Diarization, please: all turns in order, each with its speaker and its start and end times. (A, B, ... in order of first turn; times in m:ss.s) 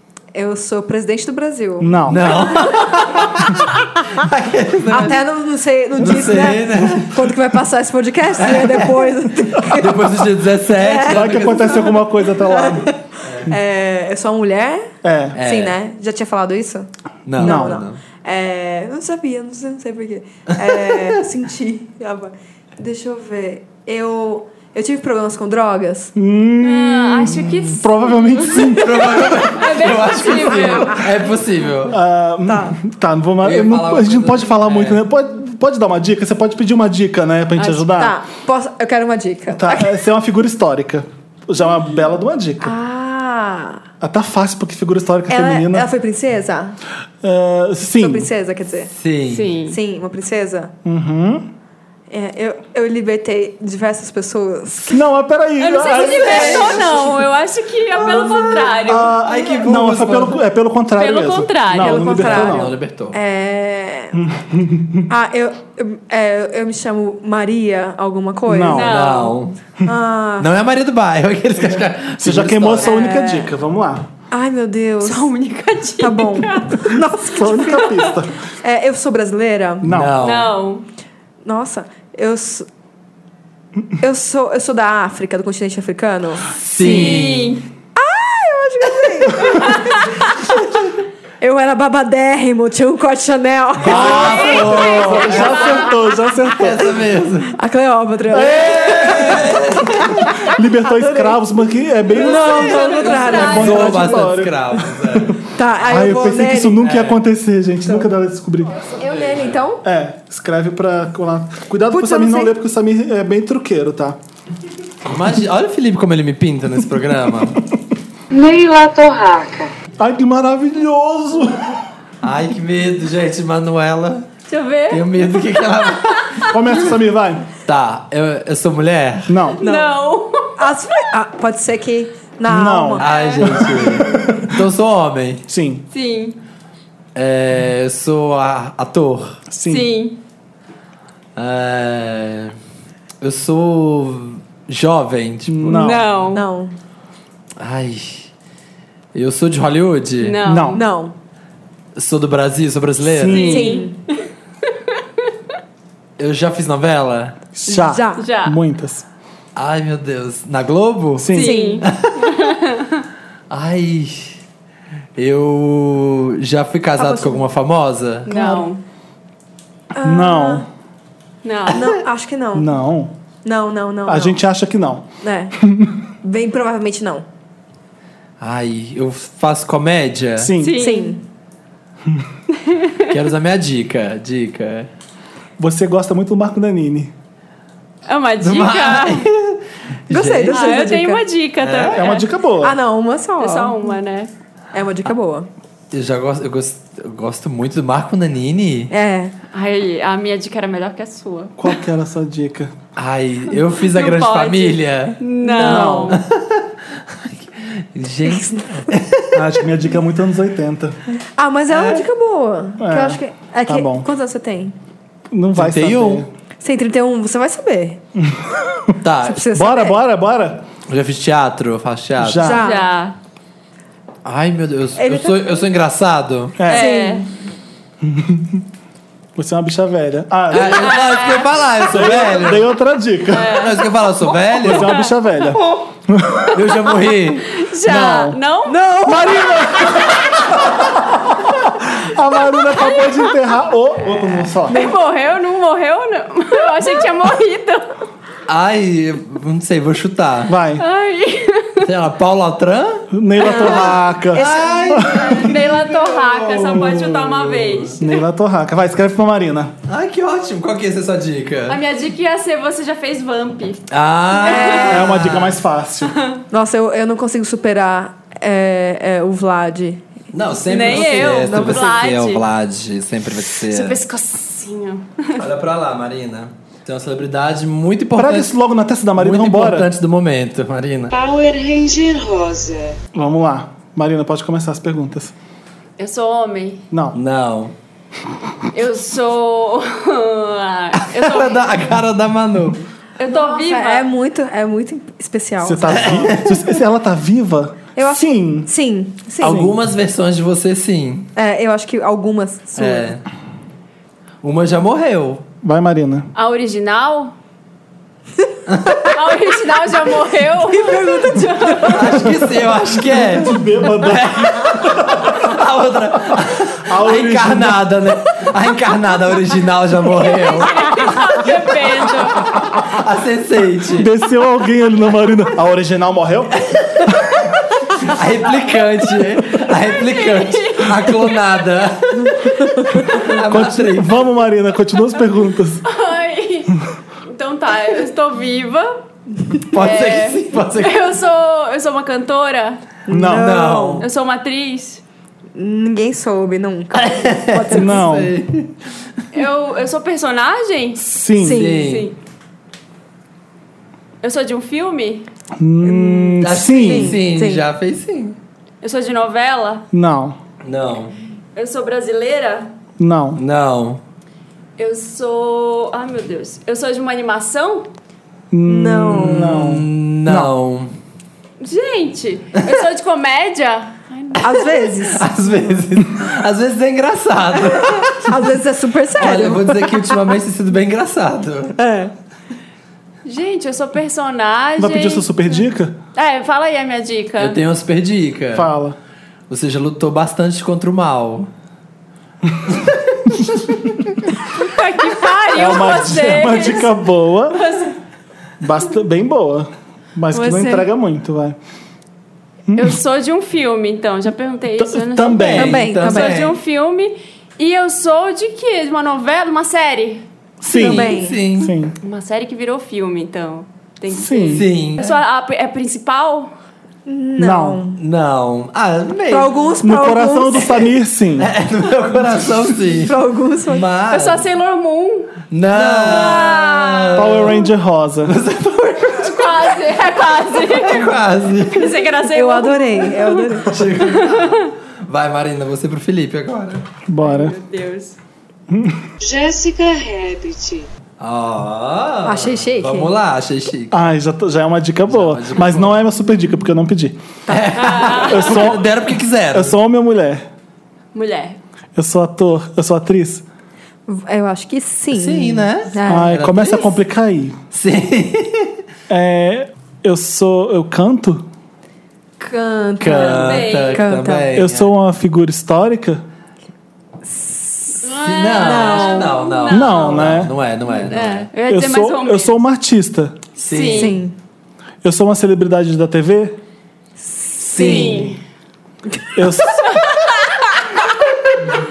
0:00.3-0:02.3 A
0:01.8-0:02.2 B
0:02.1-0:05.2 C
0:04.9-0:26.1 A
0:06.0-0:07.3 C
0:08.4-0:12.0 C
0:11.0-0:12.9 B
0:13.2-0:13.5 C
0:15.0-0:15.4 B
0:15.4-0:15.8 C
0:17.3-0:18.0 C
0:17.4-0:17.8 B
0:20.6-0:21.1 C
0:26.2-0:29.4 B
0:26.6-0:28.8 D
0:28.6-0:32.0 C
0:29.4-0:31.1 D
0:31.9-0:38.2 B
0:32.5-0:32.8 A
0:33.4-0:35.0 C
0:37.6-0:40.0 A
0:39.5-0:42.8 B
0:42.6-0:43.8 A
0:44.0-0:45.9 B
0:45.3-0:46.8 A
0:47.2-0:48.3 B
0:48.0-0:48.9 A
0:49.0-0:49.5 C
0:49.3-0:49.8 D
0:49.7-0:50.7 A
0:50.8-0:51.5 B
0:52.1-0:55.1 A
0:54.9-0:57.2 B
0:55.6-0:59.2 D
0:56.2-0:56.6 C
0:58.0-1:02.7 B
0:58.5-1:00.4 C
1:01.0-1:02.5 D
1:01.7-1:04.2 A
1:02.2-1:03.2 C
1:04.1-1:05.1 B
1:05.1-1:08.9 A
1:08.5-1:09.0 B
1:08.7-1:09.4 D
1:08.7-1:09.6 C
1:09.8-1:10.5 A
1:10.4-1:13.1 C
1:11.7-1:14.1 B
1:12.8-1:13.5 A
1:14.3-1:15.3 A
1:15.0-1:17.0 D
1:16.0-1:19.9 A
1:16.8-1:18.3 B
1:19.8-1:20.1 B
1:19.8-1:20.6 C
1:20.2-1:20.8 D
1:21.4-1:22.7 A
1:24.0-1:27.3 A
1:26.7-1:27.6 C
1:26.8-1:27.7 D
1:28.0-1:30.0 A
1:31.4-1:35.5 A
1:33.8-1:35.8 C
1:33.9-1:37.0 B
1:33.9-1:36.0 D
1:36.5-1:37.5 C
1:37.5-1:39.3 A
1:38.3-1:48.8 B
1:38.5-1:40.2 C
1:40.9-1:41.4 A
1:42.1-1:44.3 A
1:42.4-1:45.4 C
1:42.6-1:43.9 D
1:45.6-1:46.8 A
1:46.8-1:47.2 C
1:49.0-1:49.8 A
1:49.1-1:49.5 C
1:49.8-1:54.2 B
1:51.9-1:52.5 A
1:55.1-1:57.6 C
1:58.3-1:59.7 E
2:00.0-2:01.8 B
2:02.2-2:04.3 C
2:04.5-2:06.5 D
2:04.9-2:06.4 C
2:06.5-2:07.5 B
2:07.6-2:09.4 C
2:09.3-2:09.6 B
2:09.6-2:10.5 D
2:09.6-2:10.0 A
2:10.6-2:13.1 A
2:12.5-2:14.6 B
2:13.0-2:15.4 C
2:13.1-2:13.6 D
2:15.5-2:15.9 B
2:15.9-2:16.4 D
2:17.2-2:19.4 C
2:19.5-2:19.9 B
2:19.7-2:20.2 D
2:21.4-2:22.6 C
2:23.2-2:25.9 C
2:25.5-2:26.1 B
2:25.7-2:26.4 D
2:26.3-2:26.7 A
2:27.6-2:28.3 C
2:29.1-2:30.4 C
2:30.2-2:30.8 D
2:30.4-2:30.8 B
2:30.7-2:31.1 A
2:32.0-2:33.6 C
2:33.0-2:33.8 B
2:33.3-2:34.3 D
2:33.4-2:34.0 A
2:36.2-2:37.4 C
2:37.6-2:39.1 B
2:37.7-2:38.3 A
2:38.2-2:38.6 D
2:39.6-2:42.5 C
2:41.2-2:41.6 B
2:41.3-2:43.0 D
2:41.4-2:41.9 A
2:43.5-2:44.4 C
2:45.2-2:48.3 C
2:47.0-2:47.4 A
2:48.3-2:48.8 D
2:48.3-2:48.6 A
2:50.0-2:50.6 A
2:50.0-2:50.7 B
2:51.4-2:51.9 D
2:51.7-2:52.7 A
2:52.5-2:53.1 B
2:53.4-2:54.4 A
2:54.1-2:55.1 B
2:55.2-2:55.6 A
2:55.6-2:56.0 B
2:56.2-2:57.2 A
2:58.4-3:00.5 C
3:00.4-3:00.8 B
3:00.6-3:01.2 D
3:00.8-3:01.2 A
3:02.6-3:03.1 D
3:03.1-3:04.9 C
3:05.6-3:07.1 B
3:08.1-3:09.3 D
3:08.4-3:10.7 C
3:10.1-3:11.2 A
3:10.5-3:12.3 D
3:11.6-3:12.1 C
3:11.9-3:12.8 B
3:12.6-3:13.9 A
3:13.4-3:14.3 D
3:14.7-3:15.5 A
3:15.9-3:18.9 C
3:18.9-3:19.3 A
3:19.5-3:21.7 D
3:21.6-3:22.7 B
3:23.0-3:25.2 C
3:23.8-3:26.2 D
3:25.4-3:26.1 A
3:25.6-3:26.2 B
3:26.1-3:29.5 C
3:28.3-3:29.0 A
3:29.3-3:31.0 B
3:31.2-3:34.8 A
3:31.7-3:32.1 C
3:32.8-3:34.1 B
3:35.3-3:36.3 B
3:35.6-3:36.2 C
3:36.6-3:38.0 A
3:38.2-3:39.0 B
3:39.0-3:39.5 C
3:39.2-3:40.0 A
3:39.5-3:40.7 B
3:40.9-3:42.5 C
3:42.2-3:42.7 B
3:42.4-3:42.9 A
3:42.5-3:43.2 D
3:44.2-3:46.6 C
3:45.0-3:45.6 A
3:46.6-3:46.9 B
3:46.7-3:47.3 A
3:46.7-3:47.3 D
3:48.0-3:48.6 B
3:49.4-3:50.9 B
3:50.5-3:52.7 C
3:50.6-3:51.5 D
3:51.9-3:53.6 B
3:53.3-3:53.8 D
3:53.4-3:55.0 C
3:54.6-3:56.7 B
3:54.7-3:55.1 D
3:56.5-3:57.5 C
3:57.5-3:58.9 D
3:57.8-3:58.4 B
3:58.7-4:00.1 A
3:59.0-4:04.8 B
4:02.6-4:03.4 D
4:04.7-4:08.0 D
4:08.5-4:10.6 C
4:10.5-4:10.9 B
4:10.8-4:11.9 D
4:11.8-4:18.0 C
4:13.1-4:15.4 B
4:13.4-4:14.7 A
4:14.9-4:18.2 D
4:18.0-4:19.7 B
4:19.9-4:21.8 C
4:21.7-4:25.1 D
4:23.9-4:25.6 C
4:24.4-4:25.1 A
4:24.9-4:26.2 B
4:26.1-4:26.4 D
4:26.5-4:30.0 A
4:30.3-4:34.0 C
4:30.7-4:32.4 D
4:30.9-4:31.9 A
4:33.6-4:35.4 D
4:35.4-4:38.5 C
4:38.2-4:39.9 B
4:39.2-4:41.1 C
4:41.1-4:43.0 E
4:43.1-4:45.3 B
4:46.0-4:46.8 D
4:46.9-4:47.2 B
4:47.2-4:47.7 C
4:48.7-4:51.7 D
4:51.0-4:52.8 C
4:53.2-4:54.1 D
4:53.2-4:56.4 A
4:55.6-4:58.7 B
4:55.9-4:56.6 C
4:58.0-4:59.6 A
4:59.4-4:59.8 B
4:59.4-5:01.3 C
5:01.4-5:03.1 A
5:02.8-5:03.2 C
5:04.4-5:05.4 C
5:05.6-5:06.3 B
5:06.4-5:07.3 D
5:08.7-5:09.0 C
5:09.1-5:12.2 D
5:10.7-5:11.9 A
5:11.8-5:21.0 C
5:12.9-5:15.5 B
5:16.4-5:18.1 B
5:20.2-5:22.6 D
5:22.5-5:24.1 C
5:23.9-5:26.6 B
5:26.6-5:27.2 C
5:28.0-5:34.2 C
5:30.0-5:31.4 D
5:33.4-5:35.8 B
5:35.8-5:39.0 D
5:39.7-5:41.0 C
5:39.7-5:42.8 D
5:43.1-5:44.1 A
5:43.1-5:43.5 B
5:43.3-5:44.1 C
5:44.0-5:45.0 D
5:45.6-5:48.1 A
5:46.9-5:48.7 C
5:47.7-5:48.4 B
5:49.3-5:51.0 D
5:51.0-5:51.6 B
5:51.4-5:51.9 A
5:51.5-5:52.1 C
5:51.7-5:52.2 D
5:54.2-5:55.3 D
5:55.6-5:57.2 B
5:55.8-5:57.6 A
5:56.4-5:58.4 C
5:58.8-5:59.9 D
5:59.9-6:00.4 B
6:00.6-6:01.2 C
6:01.6-6:02.7 D
6:03.0-6:03.4 B
6:03.4-6:04.0 C
6:04.8-6:07.9 D
6:08.5-6:10.5 B
6:08.7-6:09.6 A
6:09.2-6:10.9 C
6:11.6-6:14.7 D
6:14.4-6:15.7 A
6:15.0-6:18.4 C
6:17.8-6:20.1 A
6:19.2-6:21.8 C
6:21.8-6:22.1 A
6:23.2-6:25.6 D
6:24.8-6:26.0 B
6:26.2-6:27.6 D
6:27.4-6:28.7 C
6:28.5-6:29.0 B
6:29.5-6:31.5 C
6:32.7-6:33.3 C
6:34.6-6:36.9 D
6:35.5-6:37.6 B
6:37.5-6:37.9 D
6:38.6-6:41.6 B
6:40.3-6:40.9 A
6:42.7-6:43.0 B
6:42.8-6:50.2 D
6:44.8-6:45.8 B
6:45.3-6:46.6 C
6:45.6-6:46.4 A
6:50.6-6:52.0 B
6:50.7-6:51.4 A
6:50.8-6:51.7 C
6:52.0-6:56.5 D
6:54.1-6:54.7 B
6:54.5-6:55.2 C
6:57.1-6:58.0 A
6:57.4-6:57.8 B
6:58.0-6:59.5 C
6:59.3-7:00.9 A
6:59.8-7:01.5 B
7:01.4-7:03.2 C
7:03.0-7:03.8 A
7:03.7-7:04.4 C
7:04.1-7:05.4 D
7:05.5-7:07.6 C
7:06.0-7:07.3 D
7:06.1-7:06.8 A
7:07.2-7:08.4 B
7:08.2-7:09.8 C
7:09.2-7:11.1 D
7:10.5-7:12.0 C
7:11.7-7:14.7 D
7:12.3-7:13.8 A
7:13.7-7:16.9 C
7:17.1-7:17.6 B
7:17.2-7:18.2 D
7:18.7-7:19.1 B
7:19.2-7:20.9 E
7:21.2-7:24.1 C
7:22.2-7:23.1 A
7:23.9-7:27.2 B
7:25.1-7:26.0 C
7:27.5-7:29.7 C
7:27.7-7:28.7 D
7:28.2-7:28.9 B
7:29.5-7:30.4 B
7:31.1-7:31.6 D
7:32.0-7:33.4 B
7:34.1-7:36.4 A
7:35.1-7:36.9 C
7:36.1-7:37.6 B
7:37.7-7:38.8 C
7:39.1-7:41.4 B
7:42.4-7:44.5 A
7:43.0-7:44.9 C
7:43.1-7:44.1 D
7:44.5-7:46.2 B
7:47.3-7:49.5 A
7:48.0-7:50.2 D
7:48.2-7:51.5 C
7:49.7-7:50.5 B
7:51.0-7:52.6 D
7:51.7-7:53.4 B
7:53.6-7:54.2 D
7:53.6-7:54.2 C
7:53.9-7:54.4 A
7:55.0-7:56.6 B
7:57.5-7:58.3 A
7:57.6-7:58.4 C
7:57.8-7:58.4 D
7:59.4-8:00.0 B